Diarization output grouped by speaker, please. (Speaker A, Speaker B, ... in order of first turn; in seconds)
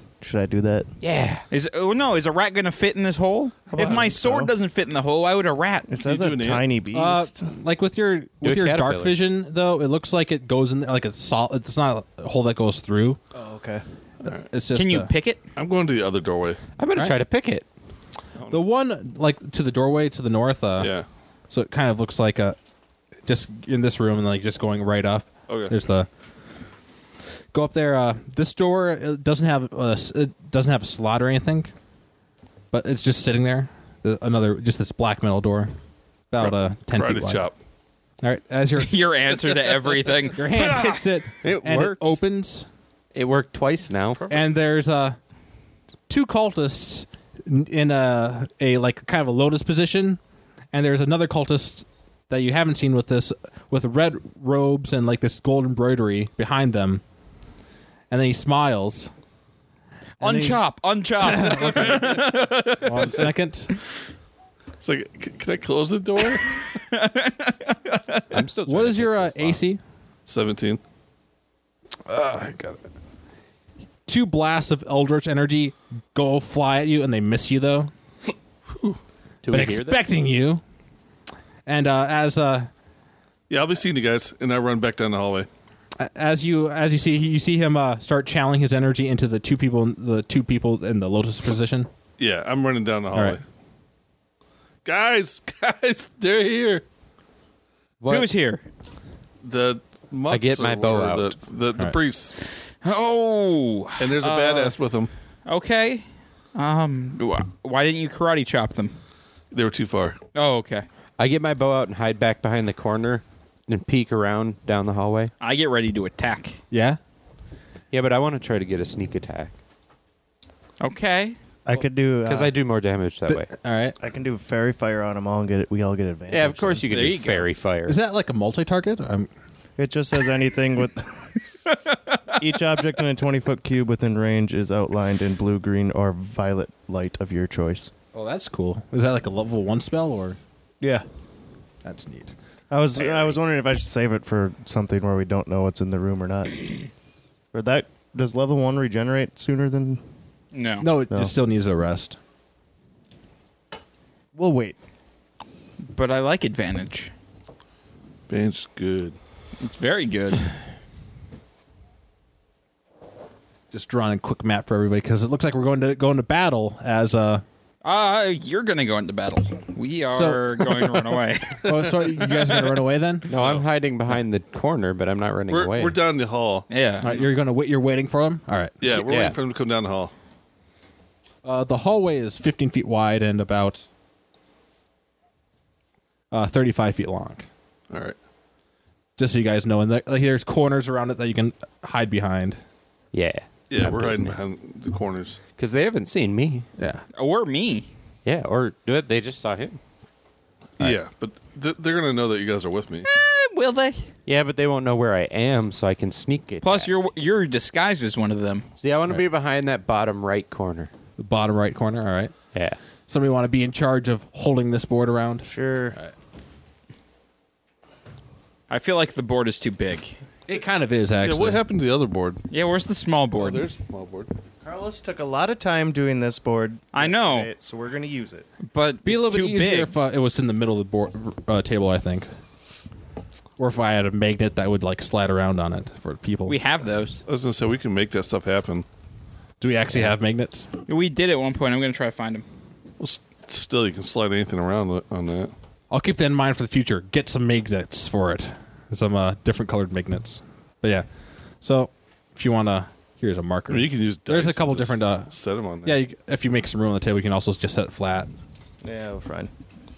Speaker A: 0.2-0.9, 3.7-4.5, 5.9-7.3, 13.3-13.8, 121.7-122.5, 124.0-126.9, 129.8-131.4, 132.3-137.9, 142.7-146.8, 147.5-150.0, 154.3-154.8, 215.4-216.0, 224.6-228.5, 258.8-259.5
Speaker B: 1.0-1.4, 8.4-9.2, 16.8-17.7, 41.4-42.0, 43.1-44.3, 68.3-69.6, 79.4-80.0, 98.0-98.3, 100.3-101.4, 111.2-115.3, 117.9-119.5, 122.2-123.5, 126.3-128.0, 173.3-176.0, 178.9-179.3, 193.1-194.4, 195.6-196.7, 198.2-199.8, 204.2-206.9, 208.8-210.9, 212.5-212.8
Speaker C: 1.5-5.9, 14.7-15.4, 38.8-41.0, 60.2-63.3, 66.3-68.3, 98.1-98.6, 102.8-104.7, 105.5-106.0, 106.5-109.0, 110.3-110.8, 115.4-116.6, 120.8-121.3, 126.9-127.5, 150.5-150.8, 155.9-157.1, 159.6-160.5, 167.8-172.8, 176.7-177.2, 197.1-197.9, 203.0-204.1, 206.6-208.7, 218.7-220.2, 222.5-223.6, 226.9-227.5, 228.7-229.9, 236.4-237.2, 240.9-242.4
Speaker D: 3.7-4.1, 6.0-6.6, 15.6-16.6, 20.8-21.1, 25.5-25.7, 36.4-37.5, 64.8-66.7, 70.3-70.8, 78.7-79.0, 83.5-85.5, 92.2-93.4, 94.8-96.8, 99.4-102.4, 104.0-105.1, 109.5-110.2, 158.3-159.2, 173.3-173.7, 175.5-176.6, 178.8-180.1, 187.9-188.2, 193.7-195.4, 200.8-203.1, 221.2-222.4, 223.3-224.3, 237.2-238.8, 243.0-245.5, 253.7-256.0
Speaker E: 6.9-13.2, 14.3-15.1, 18.5-20.9, 21.5-22.6, 23.2-26.1, 27.5-31.7, 32.7-35.7, 36.3-37.4, 38.2-39.0, 40.3-42.7, 44.3-45.2, 46.1-50.2, 50.7-57.0, 58.1-59.1, 60.2-60.6, 61.2-62.2, 62.8-63.7, 68.7-69.8, 72.1-72.8, 74.1-77.9, 79.5-80.6, 81.7-82.7, 86.0-91.9, 93.1-93.4, 116.7-117.0, 123.3-124.0, 127.8-129.3, 138.1-140.4, 141.8-142.3, 150.8-152.2, 163.7-167.4, 170.1-173.3, 177.0-178.9, 181.4-183.8, 186.3-187.4, 189.2-192.6, 211.2-212.3, 213.1-216.1, 220.5-221.6, 229.0-232.3, 233.6-236.6, 239.6-240.7, 245.9-251.1, 251.6-255.3, 255.8-258.3